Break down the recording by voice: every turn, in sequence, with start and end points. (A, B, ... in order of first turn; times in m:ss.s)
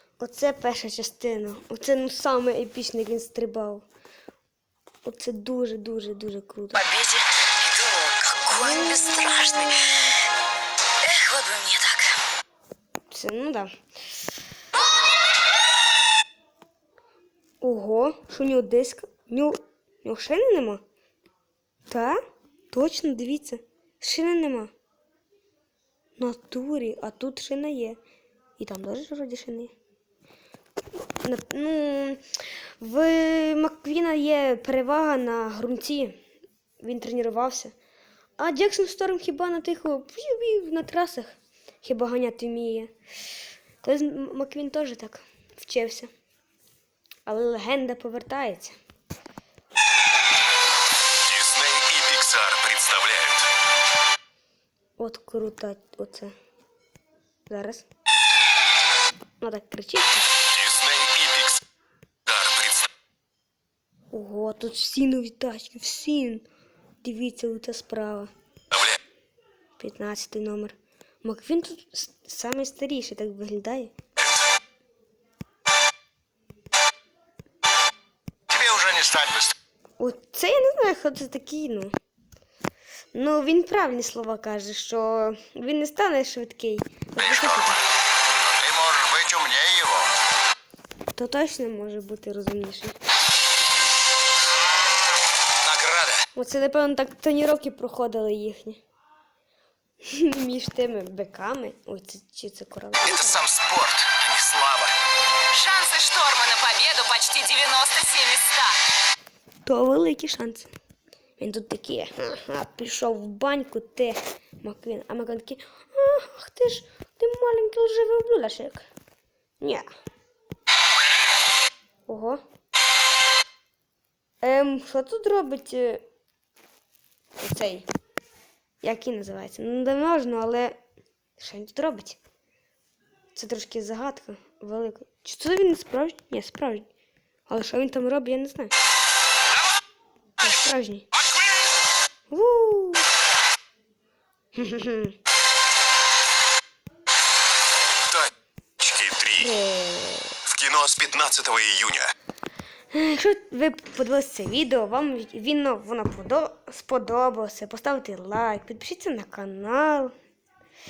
0:00.2-0:03.8 A
0:05.0-0:06.9 A
0:06.7-0:10.0 B
0:11.0-0:12.1 B
0:13.1-0:13.7 A
0:17.6-0:20.8 A
0:21.9-0:22.2 A
0:22.7-0:24.7 A
0:26.2-0:28.0 A
0:28.6-0:29.7 A
0:30.9-0:32.2 A
0:32.8-0:36.2 A
0:36.8-0:37.7 A
0:38.4-0:42.9 A
0:43.8-0:46.1 A
0:47.2-0:48.8 A
0:51.2-0:53.5 C
0:55.0-0:56.3 A
0:57.5-0:57.8 A
0:59.4-1:00.3 A
1:00.5-1:01.6 C
1:02.2-1:02.9 C
1:04.1-1:06.4 A
1:07.0-1:08.3 A
1:09.8-1:13.9 A
1:18.5-1:19.5 D
1:20.0-1:21.9 A
1:23.1-1:27.8 A
1:27.2-1:27.8 D
1:28.5-1:30.1 D
1:31.1-1:33.0 A
1:35.6-1:36.2 E
1:36.3-1:38.8 A
1:40.1-1:43.4 A
1:43.0-1:44.9 E
1:45.5-1:48.8 F
1:49.6-1:50.7 A
1:51.4-1:58.9 A
1:59.6-1:59.9 A
2:02.1-2:02.4 A
2:04.4-2:06.0 A
2:07.4-2:07.8 A
2:08.8-2:10.8 A
2:11.4-2:12.2 A
2:13.3-2:16.9 A
2:17.5-2:18.7 A
2:20.4-2:21.0 A
2:22.3-2:23.1 A
2:24.6-2:25.2 A
2:28.1-2:29.5 C
2:29.4-2:30.3 A
2:30.4-2:32.1 C
2:32.9-2:40.1 A